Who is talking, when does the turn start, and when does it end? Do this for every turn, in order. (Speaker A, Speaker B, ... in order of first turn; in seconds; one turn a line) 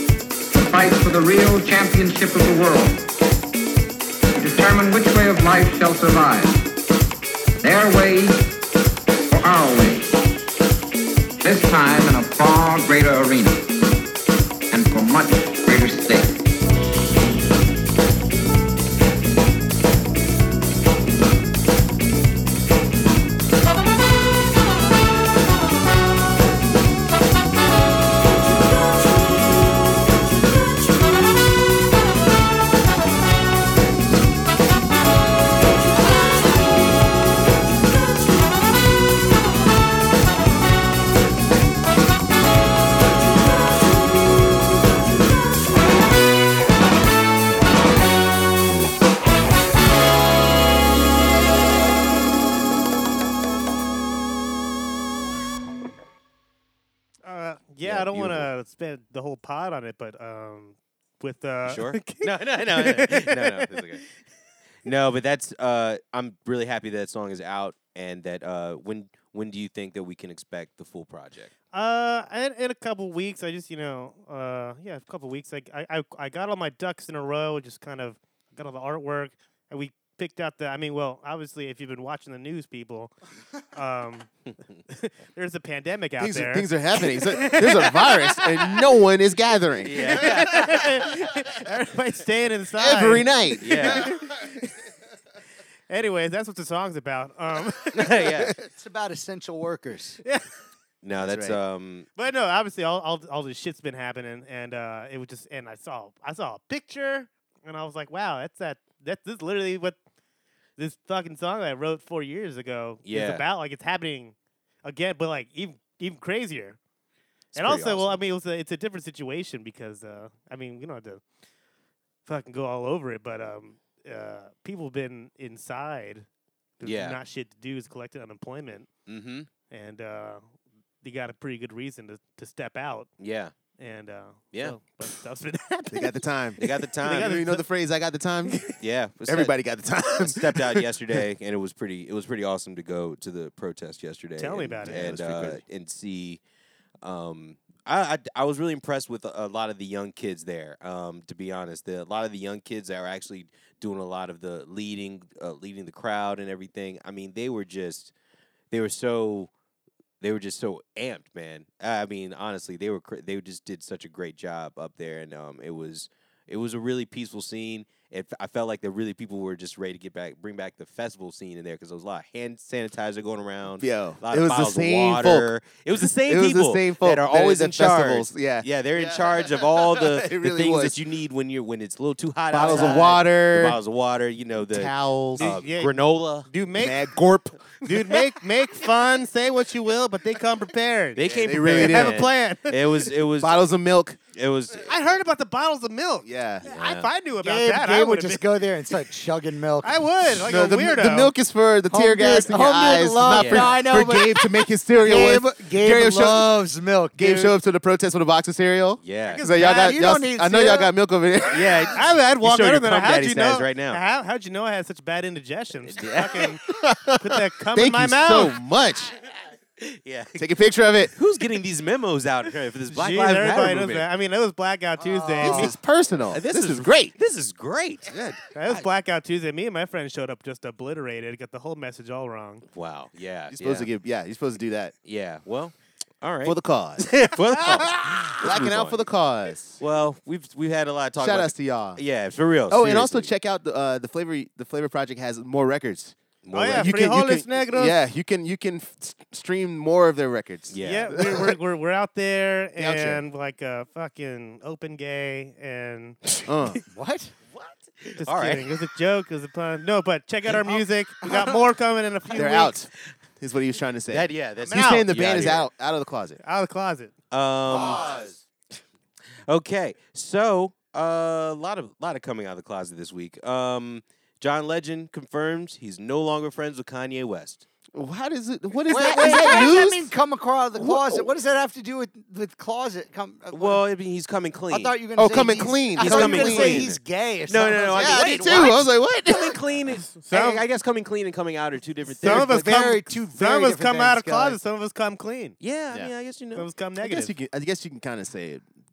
Speaker A: 0.5-3.0
Speaker A: 4.4-6.6
Speaker A: 7.6-8.5
Speaker A: 9.3-10.1
Speaker A: 11.4-13.6
Speaker A: 14.7-16.4
Speaker B: 57.2-63.7
Speaker C: 57.8-58.5
Speaker C: 61.6-64.0
Speaker C: 64.8-71.5
Speaker B: 71.7-83.1
Speaker B: 83.7-84.3
Speaker B: 84.9-88.8
Speaker D: 86.2-90.4
Speaker C: 89.8-91.0
Speaker B: 89.9-94.7
Speaker D: 92.8-94.1
Speaker C: 93.6-94.1
Speaker B: 95.9-98.2
Speaker C: 97.9-98.6
Speaker E: 98.5-100.2
Speaker C: 101.0-102.1
Speaker D: 101.2-101.6
Speaker B: 102.2-110.0
Speaker B: 110.8-116.8
Speaker C: 113.0-113.4
Speaker C: 117.5-118.2
Speaker B: 117.5-121.2
Speaker B: 122.2-126.3
Speaker B: 126.8-128.9
Speaker C: 126.8-127.2
Speaker C: 129.1-129.5
Speaker B: 129.7-130.4
Speaker B: 131.0-133.1
Speaker C: 133.2-133.5
Speaker B: 133.8-137.6
Speaker D: 135.9-138.6
Speaker C: 136.6-137.4
Speaker B: 138.5-138.8
Speaker C: 138.7-139.5
Speaker D: 139.2-141.2
Speaker C: 140.1-146.4
Speaker B: 144.4-145.1
Speaker D: 144.8-145.6
Speaker C: 147.0-158.1
Speaker C: 158.7-159.5
Speaker C: 160.2-186.5
Speaker D: 173.8-181.0
Speaker D: 182.5-183.8
Speaker D: 184.6-185.5
Speaker B: 185.4-185.9
Speaker B: 186.5-187.1
Speaker D: 186.7-188.2
Speaker B: 187.8-192.8
Speaker C: 191.2-193.6
Speaker D: 191.3-192.3
Speaker D: 193.4-194.2
Speaker C: 194.3-194.9
Speaker B: 194.9-198.4
Speaker D: 196.2-196.6
Speaker C: 196.6-197.1
Speaker E: 197.4-200.1
Speaker B: 199.8-201.3
Speaker D: 200.2-206.6
Speaker E: 201.9-207.6
Speaker C: 203.3-203.7
Speaker D: 207.2-211.9
Speaker C: 209.0-209.4
Speaker E: 209.4-210.9
Speaker C: 211.5-214.0
Speaker B: 211.9-216.6
Speaker C: 215.9-216.5
Speaker D: 216.7-219.1
Speaker B: 217.2-218.6
Speaker C: 219.8-220.4
Speaker D: 220.4-221.1
Speaker C: 221.1-224.1
Speaker B: 222.9-225.7
Speaker E: 225.0-225.7
Speaker D: 225.4-227.1
Speaker C: 226.3-228.8
Speaker D: 228.1-228.4
Speaker B: 228.5-232.6
Speaker C: 232.7-233.9
Speaker D: 233.5-234.9
Speaker C: 235.1-239.0
Speaker D: 236.4-239.8
Speaker C: 239.8-243.3
Speaker D: 241.2-242.0
Speaker D: 242.7-246.2
Speaker C: 246.4-247.0
Speaker B: 246.5-248.0
Speaker D: 246.7-251.6
Speaker C: 250.7-251.2
Speaker B: 250.8-256.2
Speaker D: 252.8-253.2
Speaker D: 256.4-256.8
Speaker E: 256.9-257.3
Speaker C: 257.6-258.7
Speaker B: 258.2-262.7
Speaker D: 262.3-266.4
Speaker C: 264.1-265.7
Speaker B: 264.6-265.1
Speaker B: 266.4-267.1
Speaker C: 267.3-268.3
Speaker D: 267.7-268.3
Speaker C: 269.5-277.6
Speaker D: 277.9-280.1
Speaker E: 278.9-283.8
Speaker C: 279.0-279.6
Speaker D: 280.8-281.3
Speaker C: 283.5-284.9
Speaker E: 284.7-288.9
Speaker D: 285.2-286.9
Speaker C: 286.0-292.6
Speaker D: 287.9-289.6
Speaker B: 290.1-290.6
Speaker B: 292.2-295.6
Speaker E: 292.2-294.6
Speaker C: 295.6-296.7
Speaker B: 296.6-297.3
Speaker D: 297.0-298.6